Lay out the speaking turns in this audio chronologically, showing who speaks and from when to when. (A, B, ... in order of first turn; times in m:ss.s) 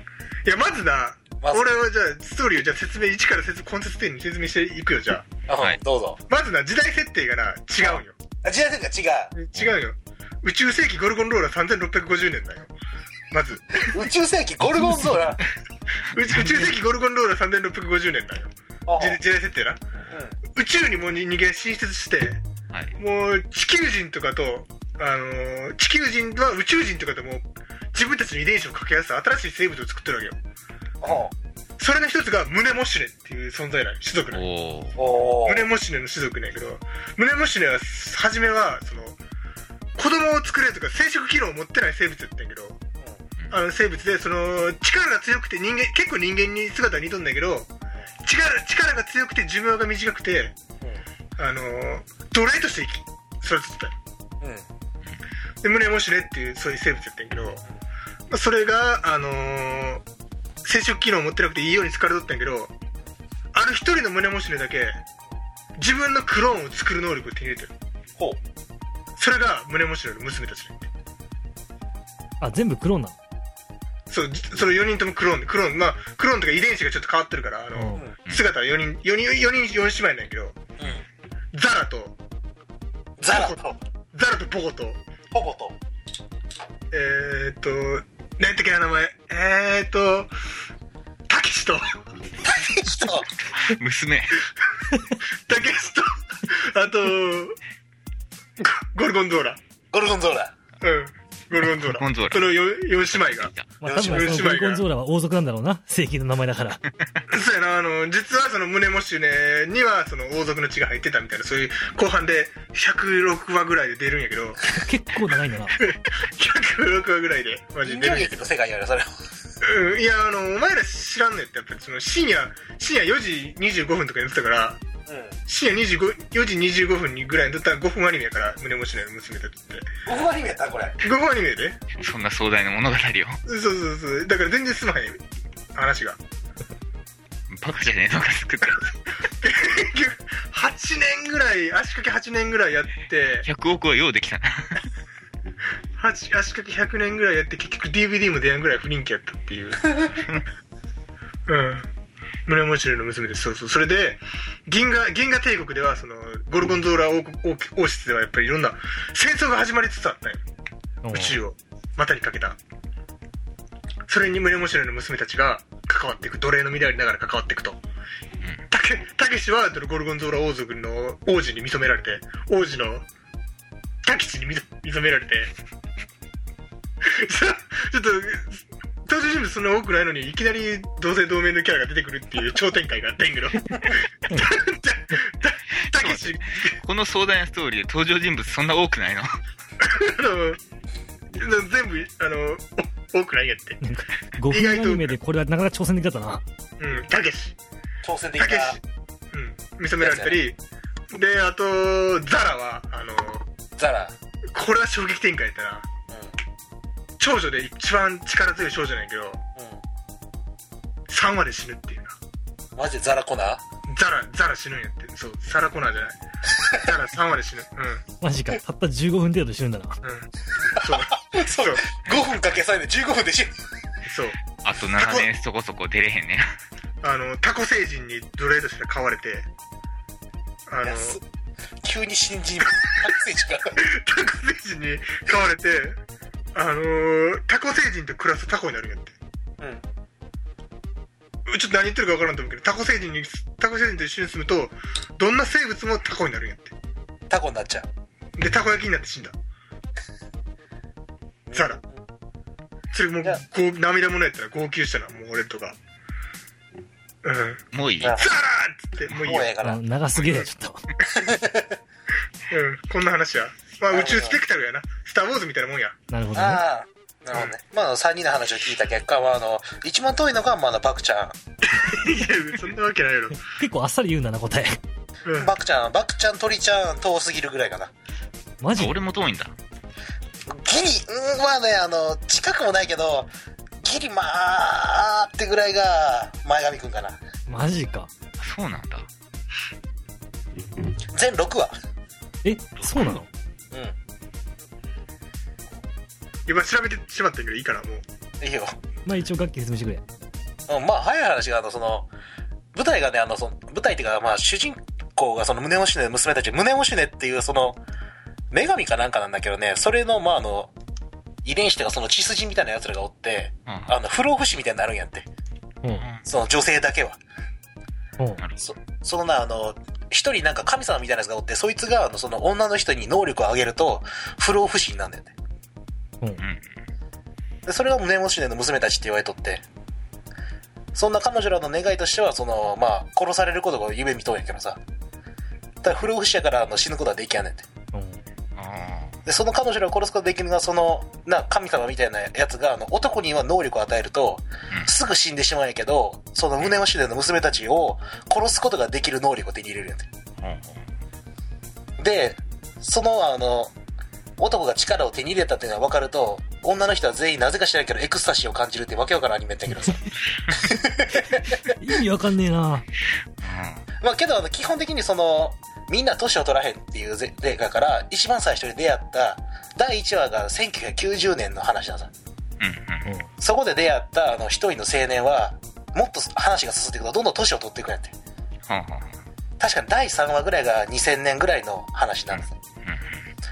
0:00.4-0:05.3 A
0:01.4-0:01.7 B
0:05.5-0:06.2 B
0:06.3-0:08.2 A
0:07.8-0:09.3 B
0:09.4-0:12.7 A
0:09.6-0:09.8 C
0:13.3-0:14.0 A
0:13.8-0:15.4 B
0:16.1-0:19.8 A
0:18.9-0:19.2 B
0:20.1-0:20.4 B
0:20.5-0:22.4 A
0:22.7-0:23.0 C
0:23.0-0:30.4 A
0:31.0-0:31.3 B
0:31.8-0:34.4 A
0:34.3-0:35.1 C
0:35.0-0:35.7 B
0:35.4-0:39.2 A
0:40.0-0:42.8 A
0:43.5-0:47.7 A
0:48.2-0:50.6 A
0:51.4-0:54.0 A
0:54.4-0:54.7 B
0:55.6-0:57.6 A
0:58.3-1:00.0 A
1:00.6-1:02.7 A
1:03.5-1:05.0 A
1:05.8-1:07.7 A
1:09.2-1:10.9 A
1:12.4-1:13.2 D
1:14.1-1:20.6 A
1:17.8-1:18.0 D
1:20.8-1:21.0 B
1:21.5-1:22.2 A
1:23.2-1:23.8 B
1:23.3-1:23.6 A
1:24.1-1:25.0 A
1:25.3-1:25.8 B
1:26.9-1:30.3 A
1:31.3-1:32.0 A
1:32.4-1:33.3 B
1:33.5-1:34.4 C
1:35.5-1:37.6 A
1:38.6-1:39.6 A
1:39.9-1:40.6 B
1:40.8-1:44.9 A
1:41.6-1:42.6 C
1:43.1-1:43.7 C
1:43.8-1:46.8 D
1:47.3-1:54.6 A
1:54.6-1:55.8 D
1:55.8-1:58.5 A
1:57.8-1:59.1 B
1:59.6-2:04.8 A
2:05.1-2:05.4 B
2:05.5-2:09.9 A
2:10.0-2:11.0 B
2:11.0-2:11.8 A
2:12.0-2:13.4 C
2:13.5-2:15.2 A
2:15.8-2:16.2 A
2:17.5-2:18.9 C
2:19.4-2:23.5 A
2:23.4-2:24.8 C
2:26.0-2:30.2 A
2:31.5-2:31.9 A
2:32.5-2:40.4 A
2:41.0-2:41.4 D
2:41.1-2:42.6 A
2:44.1-2:47.8 A
2:48.7-2:53.1 A
2:54.0-2:55.5 A
2:57.0-3:06.8 A
3:05.9-3:09.3 C
3:09.8-3:10.6 A
3:11.3-3:13.8 A
3:13.8-3:16.4 D
3:14.5-3:15.2 A
3:16.8-3:17.6 A
3:18.0-3:18.8 B
3:18.4-3:20.6 A
3:20.0-3:20.4 B
3:21.1-3:23.5 A
3:23.8-3:24.2 B
3:24.5-3:25.9 A
3:26.1-3:26.4 B
3:27.2-3:29.4 A
3:29.6-3:29.8 B
3:31.1-3:32.2 A
3:32.8-3:33.6 B
3:33.9-3:38.0 A
3:38.2-3:40.0 D
3:40.0-3:41.9 A
3:40.6-3:43.5 B
3:44.1-3:44.4 A
3:44.6-3:46.5 C
3:45.0-3:45.3 A
3:47.0-3:49.5 A
3:50.7-3:51.2 A
3:50.8-3:51.2 B
3:51.8-3:53.8 B
3:53.8-3:56.0 A
3:56.5-3:59.1 A
4:01.5-4:06.7 A
4:07.3-4:07.9 B
4:08.4-4:09.4 A
4:11.5-4:12.0 B
4:11.5-4:11.8 A
4:12.9-4:15.8 A
4:17.2-4:17.6 A
4:17.7-4:18.2 C
4:18.0-4:18.4 B
4:18.2-4:19.5 A
4:19.1-4:19.8 B
4:19.6-4:20.8 D
4:21.1-4:21.8 B
4:22.5-4:26.0 A
4:23.9-4:24.4 B
4:26.1-4:26.6 D
4:26.4-4:31.4 B
4:31.7-4:33.5 A
4:33.5-4:34.8 D
4:35.2-4:35.5 A
4:35.4-4:37.9 B
4:38.6-4:39.0 D
4:38.8-4:39.6 C
4:40.5-4:43.3 B
4:43.8-4:47.2 B
4:47.5-4:48.1 D
4:48.4-4:49.1 C
4:51.1-4:51.8 B
4:52.4-4:53.3 D
4:52.8-4:53.2 C
4:56.5-4:58.0 A
4:58.4-4:58.8 B
4:59.1-5:00.0 D
5:00.7-5:02.1 B
5:02.7-5:07.8 B
5:08.5-5:10.7 B
5:11.4-5:15.3 B
5:13.7-5:14.0 C
5:15.8-5:16.1 D
5:15.9-5:16.2 C
5:16.2-5:17.2 B
5:18.4-5:18.7 C
5:18.6-5:25.3 B
5:26.4-5:26.6 C
5:27.7-5:29.6 B
5:30.9-5:34.8 B
5:35.8-5:37.6 B
5:37.9-5:38.2 D
5:38.6-5:39.2 C
5:39.3-5:50.1 B
5:50.4-5:50.8 C
5:52.0-5:53.7 B
5:54.4-6:01.7 B
6:01.6-6:02.9 D
6:03.4-6:03.8 C
6:04.0-6:12.1 B
6:12.6-6:13.1 C
6:13.4-6:18.2 B
6:18.7-6:19.2 C
6:19.6-6:22.6 B
6:22.3-6:23.2 C